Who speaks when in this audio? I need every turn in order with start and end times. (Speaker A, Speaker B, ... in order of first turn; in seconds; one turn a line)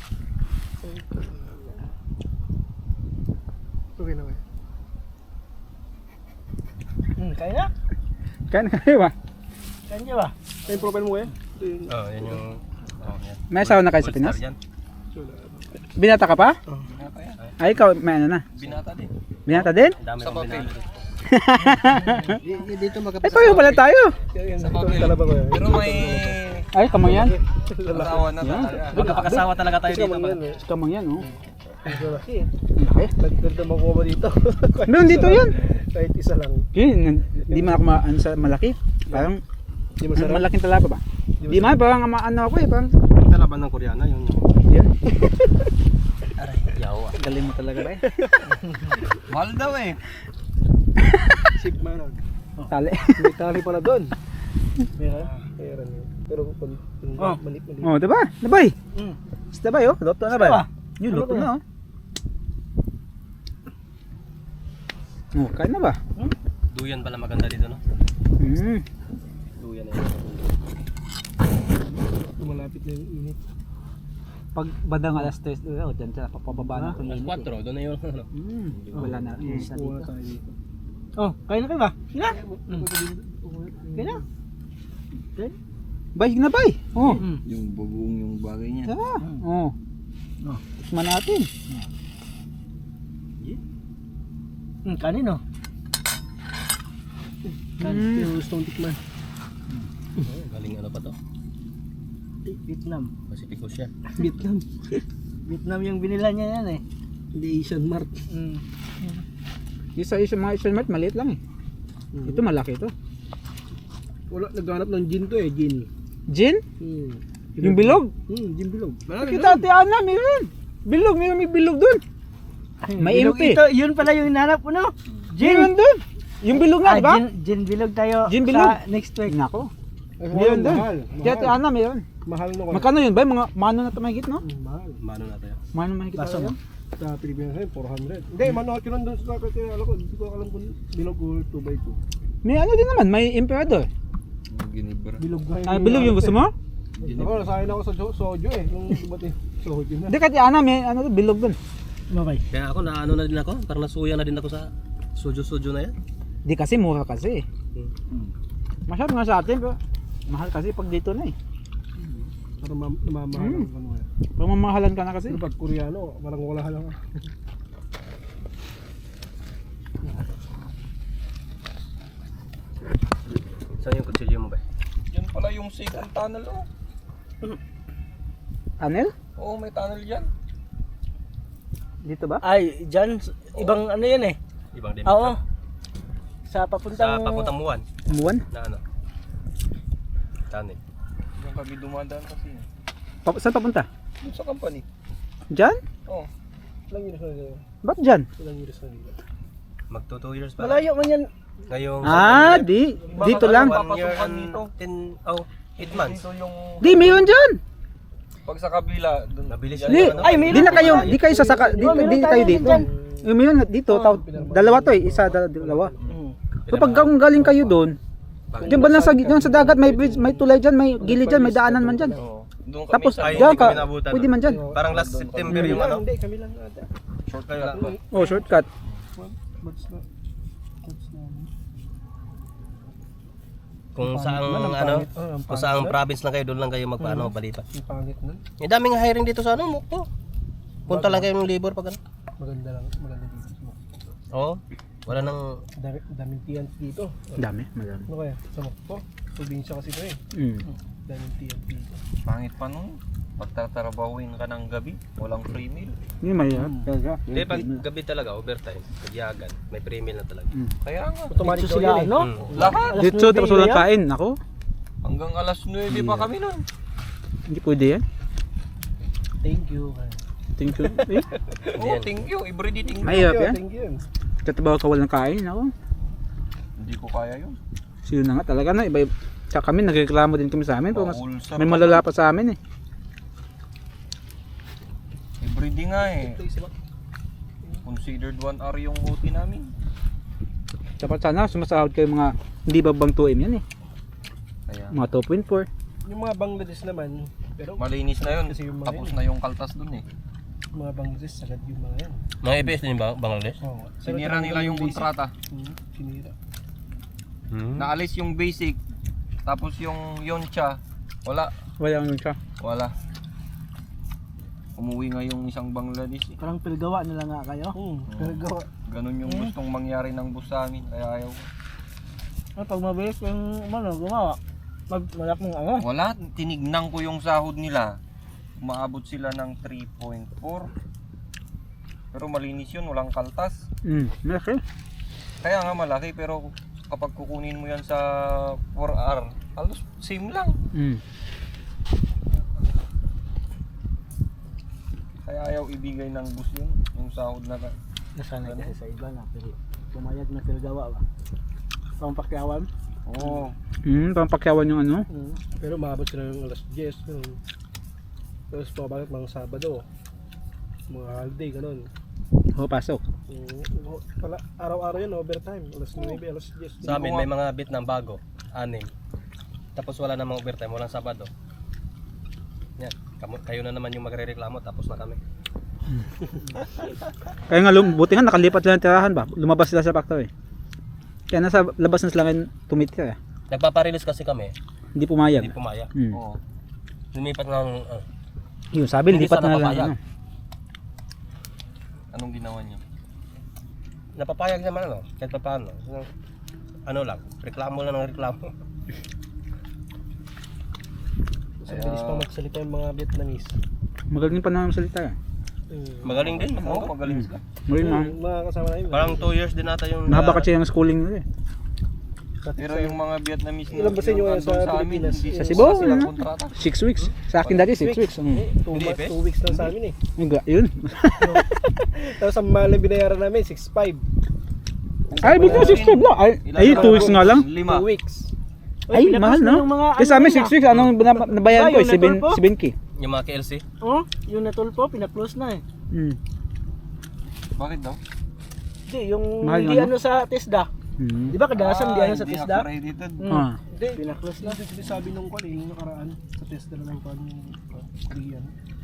Speaker A: 0.8-1.9
Speaker A: 4.0-4.4
Speaker B: 7.2-7.7
Speaker C: 8.5-9.1
Speaker B: 9.9-10.3
Speaker A: 10.7-12.4
Speaker D: 11.9-14.6
Speaker C: 13.5-14.4
Speaker A: 15.1-15.7
Speaker C: 15.9-16.6
Speaker A: 16.7-16.9
Speaker E: 16.9-17.4
Speaker C: 17.6-18.4
Speaker E: 18.6-19.1
Speaker C: 19.5-19.9
Speaker D: 19.5-21.0
Speaker E: 20.2-20.7
Speaker C: 21.2-22.4
Speaker D: 22.2-23.8
Speaker C: 23.2-24.1
Speaker A: 24.3-26.4
Speaker E: 24.6-26.7
Speaker C: 26.7-27.4
Speaker A: 26.9-30.6
Speaker E: 27.9-29.0
Speaker C: 28.4-29.5
Speaker D: 28.9-30.4
Speaker C: 30.6-31.2
Speaker A: 31.3-36.7
Speaker C: 32.8-33.1
Speaker C: 34.9-35.5
Speaker C: 36.7-39.4
Speaker A: 37.4-37.8
Speaker A: 40.0-40.5
Speaker C: 40.1-42.9
Speaker A: 41.4-41.8
Speaker D: 43.2-44.5
Speaker D: 46.7-47.2
Speaker C: 47.2-48.0
Speaker A: 48.2-48.6
Speaker E: 49.3-50.0
Speaker A: 51.5-52.2
Speaker C: 52.7-53.3
Speaker A: 53.2-54.1
Speaker B: 55.0-55.3
Speaker A: 55.5-57.9
Speaker C: 57.8-58.7
Speaker C: 59.5-61.6
Speaker B: 60.3-61.5
Speaker C: 65.3-66.0
Speaker D: 66.7-67.8
Speaker C: 68.4-68.8
Speaker D: 69.6-70.5
Speaker A: 72.2-73.4
Speaker C: 74.5-77.5
Speaker B: 76.6-76.9
Speaker D: 77.0-78.3
Speaker C: 78.3-79.7
Speaker E: 78.7-79.4
Speaker B: 78.9-80.1
Speaker A: 79.0-80.5
Speaker B: 81.2-82.9
Speaker A: 82.2-84.2
Speaker B: 83.9-84.2
Speaker C: 86.1-87.2
Speaker B: 87.1-87.4
Speaker E: 87.4-88.9
Speaker C: 88.8-89.7
Speaker C: 90.9-91.5
Speaker B: 94.8-95.4
Speaker C: 97.8-98.3
Speaker B: 97.8-98.1
Speaker A: 97.9-99.0
Speaker D: 100.4-101.2
Speaker B: 102.4-103.1
Speaker D: 103.3-103.9
Speaker A: 104.1-105.0
Speaker B: 105.4-106.8
Speaker A: 107.3-108.2
Speaker B: 108.3-109.2
Speaker C: 110.0-111.4
Speaker A: 112.1-112.4
Speaker C: 112.2-112.9
Speaker A: 114.3-115.9
Speaker C: 116.3-116.6
Speaker A: 116.8-119.6
Speaker C: 117.6-118.1
Speaker C: 119.2-122.0
Speaker B: 122.8-125.7
Speaker C: 123.0-123.6
Speaker C: 125.4-127.2
Speaker B: 126.5-129.4
Speaker C: 128.2-129.7
Speaker A: 130.2-131.6
Speaker C: 130.3-132.1
Speaker A: 132.2-132.9
Speaker C: 132.7-134.4
Speaker A: 134.4-135.0
Speaker D: 135.0-135.6
Speaker C: 135.7-136.6
Speaker A: 137.0-142.0
Speaker C: 142.4-143.9
Speaker E: 144.5-145.2
Speaker A: 145.2-146.4
Speaker C: 145.6-146.5
Speaker E: 147.0-147.7
Speaker A: 147.0-150.2
Speaker C: 150.1-151.6
Speaker B: 152.1-152.4
Speaker D: 152.5-155.9
Speaker C: 156.4-157.4
Speaker C: 158.9-159.8
Speaker C: 160.3-161.3
Speaker A: 162.0-164.1
Speaker C: 163.3-163.7
Speaker C: 164.4-165.4
Speaker A: 165.3-167.0
Speaker D: 173.8-174.6
Speaker E: 175.1-176.6
Speaker C: 178.8-179.1
Speaker E: 179.3-180.3
Speaker C: 182.0-182.4
Speaker B: 182.4-184.4
Speaker D: 184.7-185.3
Speaker B: 185.0-185.4
Speaker B: 186.5-187.5
Speaker D: 186.9-187.8
Speaker C: 188.1-188.4
Speaker D: 188.5-188.8
Speaker D: 190.5-190.8
Speaker E: 191.4-192.6
Speaker C: 193.2-193.9
Speaker E: 194.2-194.8
Speaker C: 195.5-195.8
Speaker A: 196.9-197.6
Speaker C: 197.8-198.3
Speaker A: 198.4-199.2
Speaker D: 199.9-200.9
Speaker B: 200.6-201.3
Speaker D: 201.7-206.2
Speaker C: 202.0-203.8
Speaker E: 203.1-204.7
Speaker A: 205.8-207.2
Speaker C: 206.8-207.6
Speaker E: 208.4-210.8
Speaker D: 209.5-211.2
Speaker C: 209.9-215.9
Speaker B: 210.2-212.9
Speaker A: 210.9-213.3
Speaker A: 213.9-216.2
Speaker B: 216.1-216.3
Speaker D: 216.7-217.7
Speaker C: 216.7-218.0
Speaker D: 218.5-218.9
Speaker A: 218.6-222.2
Speaker C: 218.6-222.2
Speaker E: 222.2-223.9
Speaker C: 222.9-224.6
Speaker D: 223.2-226.0
Speaker A: 224.4-226.9
Speaker E: 224.9-225.9
Speaker E: 227.3-228.0
Speaker D: 227.5-227.9
Speaker A: 227.7-228.4
Speaker C: 228.1-228.7
Speaker A: 229.2-230.0
Speaker A: 230.8-231.5
Speaker D: 233.9-237.7
Speaker A: 234.0-236.0
Speaker A: 237.0-238.4
Speaker D: 238.6-240.1
Speaker D: 240.9-242.0
Speaker A: 240.9-241.3
Speaker A: 242.4-244.1
Speaker D: 244.3-245.6
Speaker A: 245.8-247.4
Speaker C: 247.4-248.1
Speaker A: 248.1-250.2
Speaker C: 250.3-250.6
Speaker A: 251.1-252.0
Speaker E: 252.2-255.9
Speaker C: 256.2-257.8
Speaker A: 256.5-256.8
Speaker D: 257.3-260.5
Speaker E: 260.8-261.3
Speaker A: 261.3-262.9
Speaker B: 261.4-263.9
Speaker D: 262.1-262.7
Speaker E: 262.4-263.0
Speaker C: 262.9-264.4
Speaker E: 265.0-266.6
Speaker C: 265.9-266.3
Speaker C: 267.5-268.0
Speaker B: 269.4-270.1
Speaker C: 270.6-271.3
Speaker A: 270.8-271.8
Speaker E: 271.7-273.2
Speaker D: 271.8-272.1
Speaker A: 272.9-274.0
Speaker C: 273.0-273.6
Speaker C: 274.4-275.7
Speaker E: 276.8-277.6
Speaker C: 278.1-282.6
Speaker E: 280.9-282.0
Speaker E: 285.4-286.4
Speaker A: 286.0-286.7
Speaker E: 287.8-289.7
Speaker C: 291.0-293.6
Speaker E: 294.7-295.0
Speaker C: 294.9-295.7
Speaker A: 296.0-299.2
Speaker E: 297.8-300.0
Speaker A: 300.7-302.2
Speaker D: 302.4-303.6
Speaker A: 303.6-306.3
Speaker E: 304.0-305.3
Speaker D: 307.5-307.9
Speaker E: 307.8-308.8
Speaker E: 309.4-311.5
Speaker C: 311.8-312.4
Speaker E: 312.6-312.9
Speaker E: 314.8-316.4
Speaker B: 316.4-318.7
Speaker A: 317.7-318.1
Speaker E: 318.1-321.5
Speaker B: 319.2-319.5
Speaker B: 322.6-324.4
Speaker B: 324.9-325.9
Speaker E: 325.8-327.9
Speaker E: 328.6-330.7
Speaker E: 332.1-333.6
Speaker C: 333.8-334.6
Speaker E: 335.4-340.6
Speaker C: 340.7-341.0
Speaker E: 345.2-347.7
Speaker B: 348.1-351.0
Speaker E: 348.4-348.7
Speaker B: 352.0-352.7
Speaker E: 353.1-353.5
Speaker C: 353.8-355.0
Speaker B: 355.1-355.4
Speaker A: 355.6-357.4
Speaker A: 358.5-359.8
Speaker A: 360.9-361.9
Speaker C: 362.5-363.0
Speaker A: 363.3-367.3
Speaker D: 366.8-368.9
Speaker D: 369.8-371.3
Speaker D: 372.8-375.2
Speaker C: 377.5-380.3
Speaker C: 381.3-383.1
Speaker D: 383.5-384.5
Speaker C: 384.9-386.2
Speaker D: 385.4-385.9
Speaker E: 386.1-386.4
Speaker D: 387.1-388.0
Speaker C: 388.7-390.0
Speaker D: 389.1-389.9
Speaker E: 392.1-392.8
Speaker D: 394.2-396.1
Speaker D: 396.9-398.5
Speaker A: 401.6-403.6
Speaker E: 401.7-402.3
Speaker C: 404.1-405.1
Speaker A: 405.7-406.1
Speaker D: 406.0-406.9
Speaker E: 406.1-407.4
Speaker C: 407.1-408.1
Speaker A: 407.8-409.3
Speaker D: 408.9-410.5
Speaker C: 410.1-411.2
Speaker A: 412.4-413.0
Speaker E: 412.6-416.5
Speaker A: 413.7-416.0
Speaker C: 415.3-418.4
Speaker A: 417.4-419.9
Speaker D: 418.7-419.6
Speaker C: 420.1-421.4
Speaker B: 421.2-421.5
Speaker A: 421.9-424.0
Speaker A: 425.1-425.9
Speaker C: 425.2-427.5
Speaker E: 425.2-427.9
Speaker A: 426.6-428.2
Speaker B: 428.9-430.6
Speaker C: 428.9-432.7
Speaker B: 431.3-432.4
Speaker D: 433.0-433.6
Speaker B: 433.8-435.6
Speaker C: 435.9-436.2
Speaker E: 437.6-438.0
Speaker B: 438.9-440.7
Speaker C: 439.4-439.9
Speaker C: 441.0-441.4
Speaker B: 441.3-444.6
Speaker E: 441.5-443.3
Speaker C: 443.3-443.6
Speaker A: 443.7-448.5